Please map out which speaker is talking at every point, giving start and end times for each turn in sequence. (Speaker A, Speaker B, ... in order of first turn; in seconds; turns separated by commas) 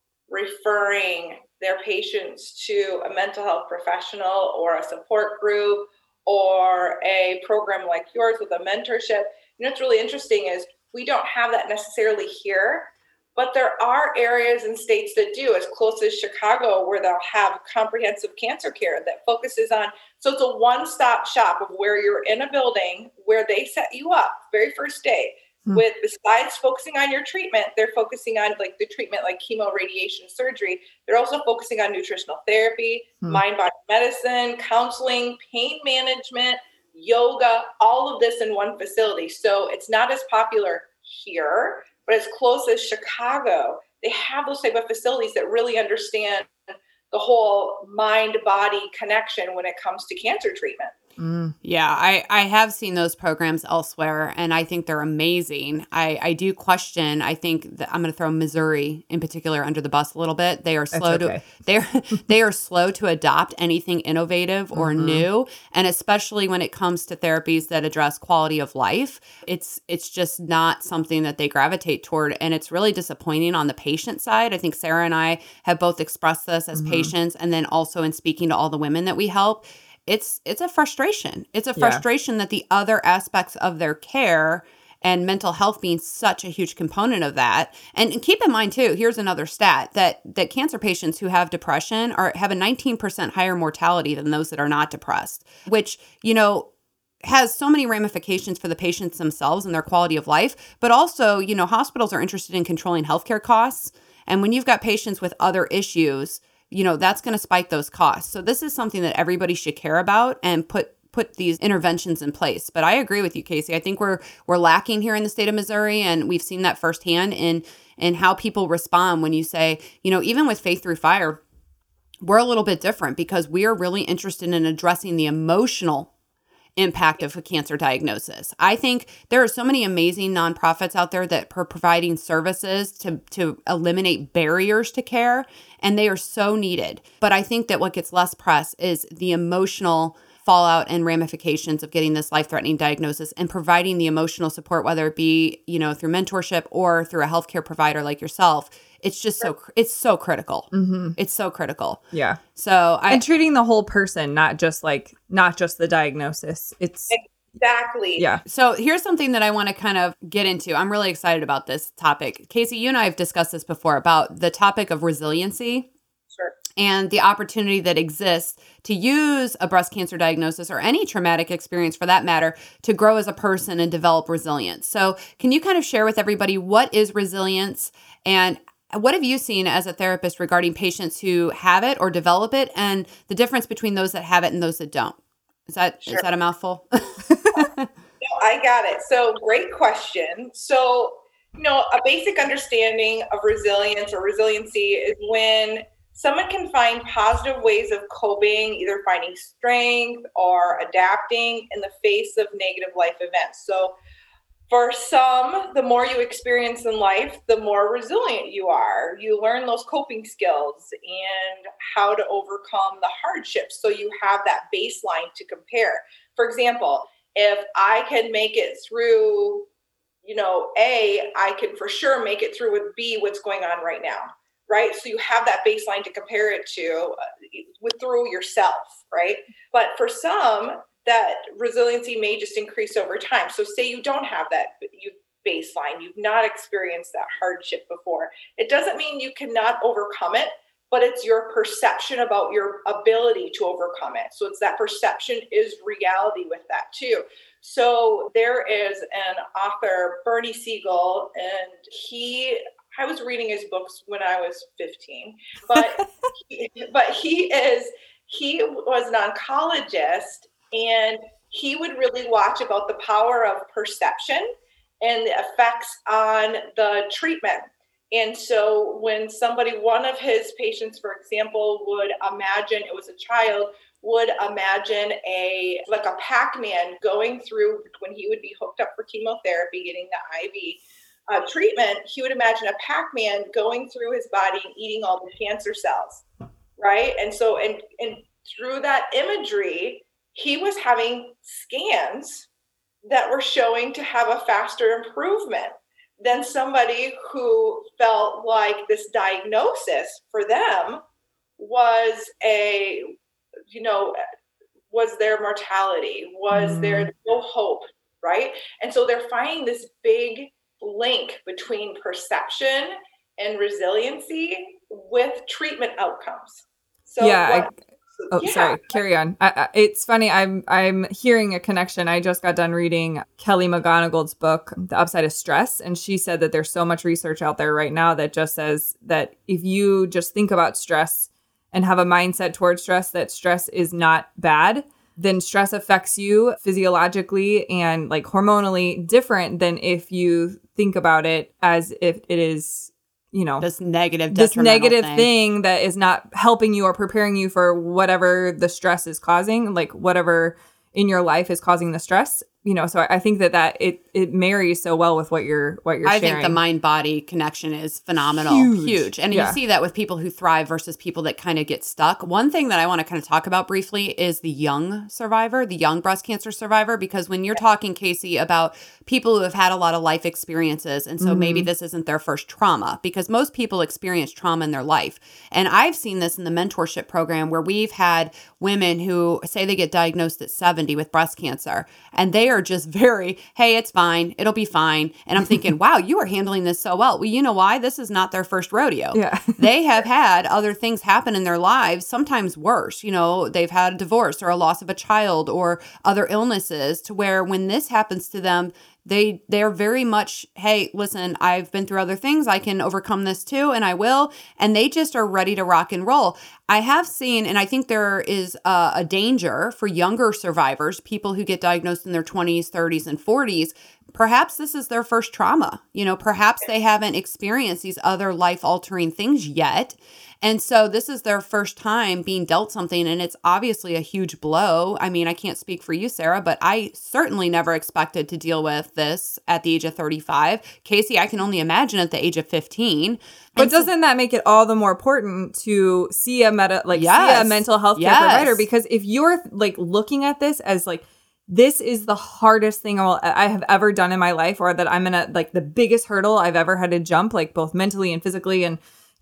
Speaker A: 0.3-51.0, Speaker B: 51.2-51.5, Speaker C: 51.6-96.7, Speaker B: 60.9-61.4, Speaker B: 64.7-65.3, Speaker B: 76.8-77.1, Speaker B: 81.8-82.0, Speaker C: 97.2-121.4, Speaker C: 122.2-126.1, Speaker C: 126.8-152.0, Speaker B: 150.7-151.2, Speaker B: 152.1-152.4, Speaker C: 152.6-153.2, Speaker B: 153.1-157.2, Speaker A: 157.1-158.3, Speaker B: 158.2-158.4, Speaker C: 158.4-165.9, Speaker A: 166.3-166.6, Speaker C: 166.8-187.9, Speaker B: 187.3-187.6, Speaker A: 188.2-204.0, Speaker A: 204.7-219.7, Speaker A: 220.2-286.2, Speaker A: 286.8-292.5, Speaker A: 293.1-301.0, Speaker A: 301.6-303.2, Speaker A: 303.7-304.2, Speaker A: 304.9-319.0, Speaker B: 306.5-307.1, Speaker B: 317.2-317.7, Speaker B: 318.3-343.7, Speaker C: 343.6-345.3, Speaker B: 344.3-356.6, Speaker C: 356.1-433.9, Speaker B: 358.4-359.6, Speaker B: 371.2-371.7, Speaker B: 389.1-389.7, Speaker B: 433.6-448.8, Speaker C: 436.9-438.7